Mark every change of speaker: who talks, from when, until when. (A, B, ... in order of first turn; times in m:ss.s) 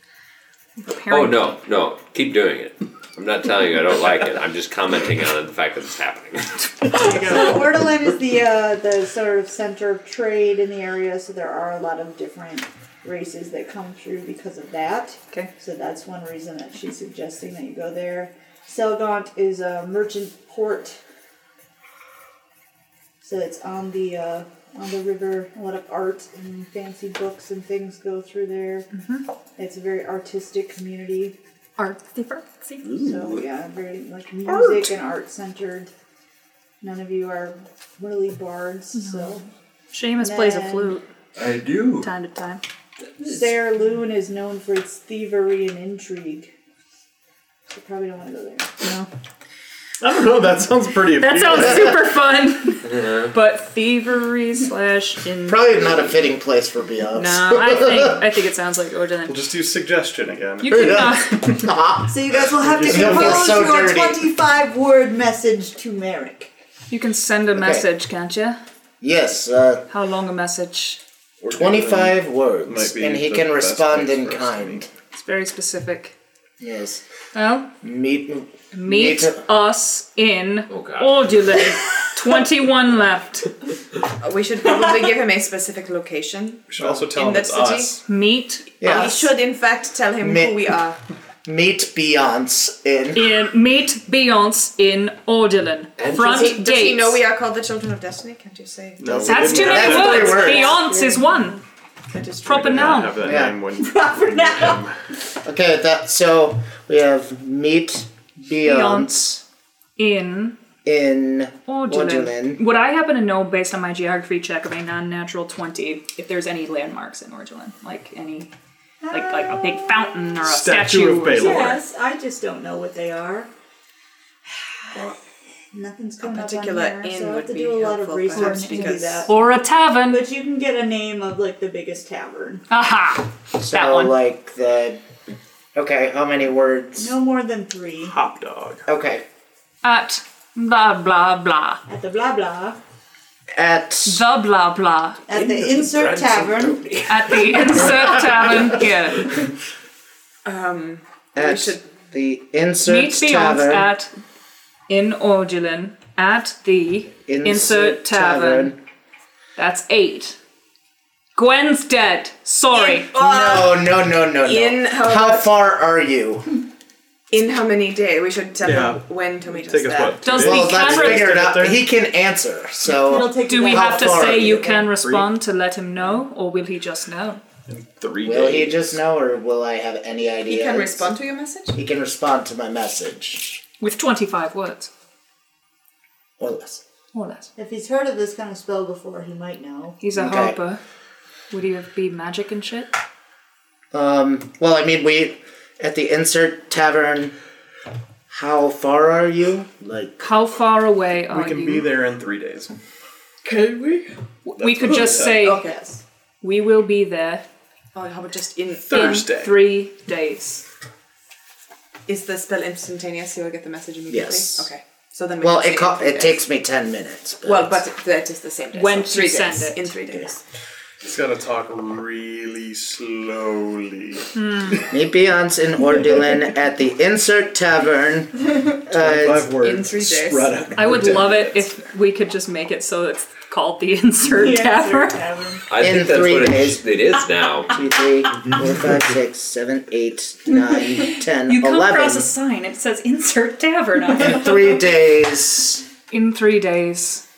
0:00.8-0:01.5 A
0:01.1-0:06.9 B
0:06.9-0:07.6 A
0:06.9-0:21.0 C
0:23.2-0:28.9 C
0:28.9-0:29.2 A
0:29.6-0:31.4 C
0:31.8-0:32.9 A
0:32.8-0:33.4 B
0:33.0-0:35.9 C
0:34.5-0:34.8 A
0:36.8-0:39.4 C
0:39.0-0:39.2 A
0:39.9-0:41.0 A
0:40.2-0:41.0 C
0:41.4-0:42.1 B
0:42.0-0:42.6 A
0:43.2-0:46.5 C
0:47.7-0:48.7 C
0:48.8-0:49.1 A
0:50.0-0:52.0 D
0:51.2-0:55.8 A
0:52.9-0:53.3 B
0:55.4-0:58.2 E
0:57.1-0:59.4 A
0:59.2-1:01.1 D
1:00.6-1:01.6 A
1:00.7-1:04.3 E
1:02.1-1:06.5 C
1:02.6-1:03.6 D
1:06.9-1:08.6 A
1:07.5-1:07.9 E
1:09.0-1:09.8 E
1:09.9-1:11.0 A
1:11.4-1:14.8 D
1:11.4-1:14.9 E
1:15.1-1:16.1 A
1:16.6-1:17.0 E
1:17.3-1:17.7 A
1:17.8-1:19.4 E
1:18.7-1:23.5 A
1:20.7-1:21.2 B
1:24.2-1:28.0 F
1:26.7-1:28.0 D
1:28.0-1:28.7 A
1:28.8-1:31.0 F
1:28.8-1:29.3 E
1:30.2-1:30.6 E
1:31.4-1:33.3 E
1:33.1-1:37.2 A
1:36.0-1:36.6 B
1:36.0-1:41.1 F
1:39.0-1:40.3 D
1:39.0-1:40.7 E
1:39.2-1:41.6 A
1:40.2-1:41.5 C
1:42.1-1:43.1 F
1:42.4-1:43.2 A
1:42.4-1:45.0 D
1:43.2-1:43.6 E
1:43.7-1:44.8 C
1:45.4-1:49.4 E
1:48.6-1:49.1 A
1:50.0-1:50.6 A
1:50.8-1:52.6 E
1:51.7-1:58.5 A
1:59.0-2:00.0 C
1:59.1-2:01.8 A
2:00.4-2:01.8 D
2:01.3-2:03.5 C
2:04.4-2:05.2 C
2:05.7-2:09.3 C
2:06.2-2:09.3 F
2:08.3-2:10.2 A
2:10.1-2:12.6 C
2:12.7-2:14.1 A
2:13.6-2:15.0 E
2:15.7-2:17.1 E
2:17.0-2:18.1 C
2:18.0-2:18.8 D
2:18.9-2:19.2 E
2:19.8-2:21.8 A
2:21.9-2:22.8 C
2:23.5-2:24.2 E
2:24.0-2:25.2 A
2:25.3-2:26.8 C
2:25.3-2:28.3 B
2:27.0-2:29.4 A
2:30.4-2:31.8 F
2:31.4-2:33.9 E
2:32.8-2:34.1 A
2:34.9-2:38.7 A
2:37.3-2:38.8 E
2:39.6-2:40.4 A
2:41.3-2:43.1 A
2:42.7-2:43.8 F
2:43.1-2:46.5 E
2:44.4-2:45.5 F
2:47.3-2:50.2 F
2:48.6-2:51.8 D
2:50.2-2:51.4 A
2:50.4-2:54.7 E
2:53.0-2:54.9 C
2:53.4-2:57.4 A
2:54.9-2:55.3 D
2:57.7-2:59.0 D
2:58.2-3:01.2 E
3:00.4-3:01.8 F
3:01.7-3:03.6 E
3:03.8-3:04.9 A
3:06.4-3:06.8 E
3:07.1-3:07.5 A
3:07.6-3:10.0 C
3:10.0-3:10.8 A
3:10.1-3:10.6 E
3:11.5-3:12.9 A
3:13.9-3:17.3 E
3:18.3-3:20.2 E
3:20.2-3:21.9 A
3:21.3-3:22.7 D
3:23.4-3:25.5 D
3:24.4-3:25.6 A
3:24.9-3:26.0 F
3:26.4-3:27.4 A
3:27.9-3:29.3 F
3:28.9-3:29.7 D
3:28.9-3:30.6 A
3:32.1-3:36.4 F
3:34.1-3:34.7 E
3:35.4-3:37.8 E
3:37.4-3:40.4 F
3:38.7-3:39.9 A
3:41.0-3:44.9 D
3:44.3-3:44.8 A
3:44.9-3:49.5 E
3:48.9-3:51.7 D
3:49.6-3:50.8 F
3:50.7-3:55.2 A
3:54.2-3:55.6 C
3:55.7-3:57.8 B
3:55.8-3:56.8 E
3:57.7-4:02.3 E
4:01.1-4:04.7 A
4:04.2-4:05.8 E
4:06.1-4:07.2 A